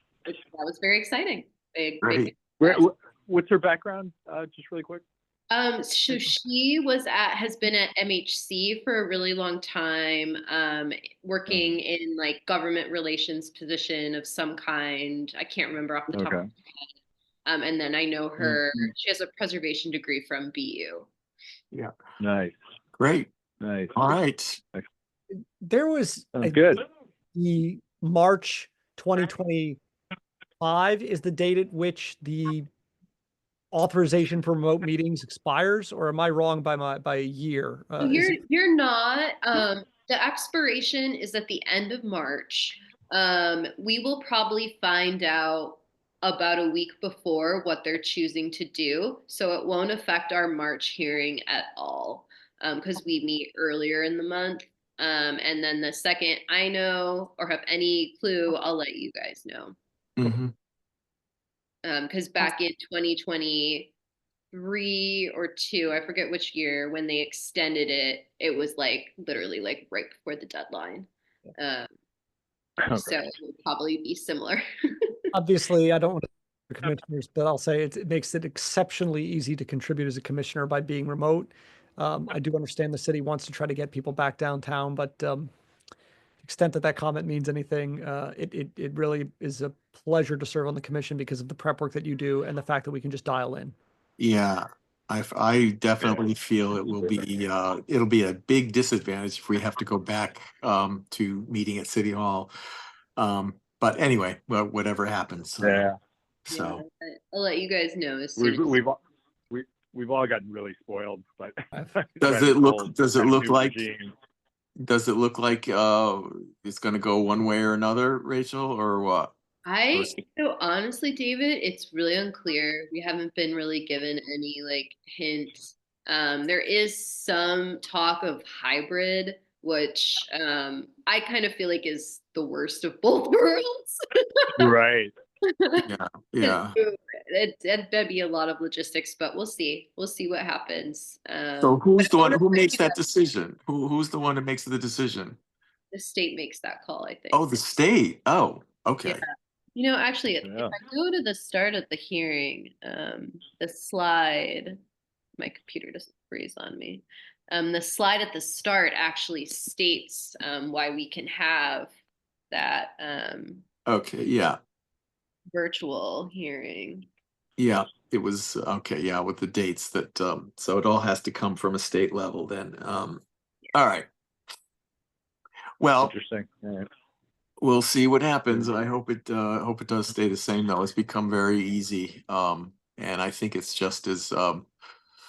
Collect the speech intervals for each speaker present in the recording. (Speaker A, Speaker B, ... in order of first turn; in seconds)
Speaker A: 0.2-2.8, 5.5-16.9, 17.4-21.1, 38.0-59.7, 61.8-63.9, 64.5-71.9, 72.9-75.2, 106.5-108.8, 119.6-134.5, 135.5-135.8, 136.4-143.0, 145.9-147.6, 149.1-154.8, 155.4-161.9, 162.5-163.6, 165.5-167.1
Speaker B: 2.0-2.3, 23.0-23.3, 23.9-24.6, 60.2-60.5, 94.2-102.5, 103.2-105.8, 106.5-106.8, 112.2-113.8, 114.8-119.3, 135.8-136.8, 141.6-145.4, 147.3-149.2, 163.9-164.6, 167.6-173.2, 173.7-174.1, 175.8-176.1, 177.6-184.7
Speaker C: 2.6-5.0, 16.1-16.4, 18.4-18.6, 22.2-22.5, 23.6-24.0, 26.4-26.8, 72.8-73.2, 105.6-106.0, 108.4-109.0, 109.5-114.1, 134.6-135.1, 150.4-150.7, 176.0-176.9
Speaker D: 25.3-26.7, 27.3-29.8, 30.6-32.7, 33.7-38.4, 75.3-85.5, 86.4-93.7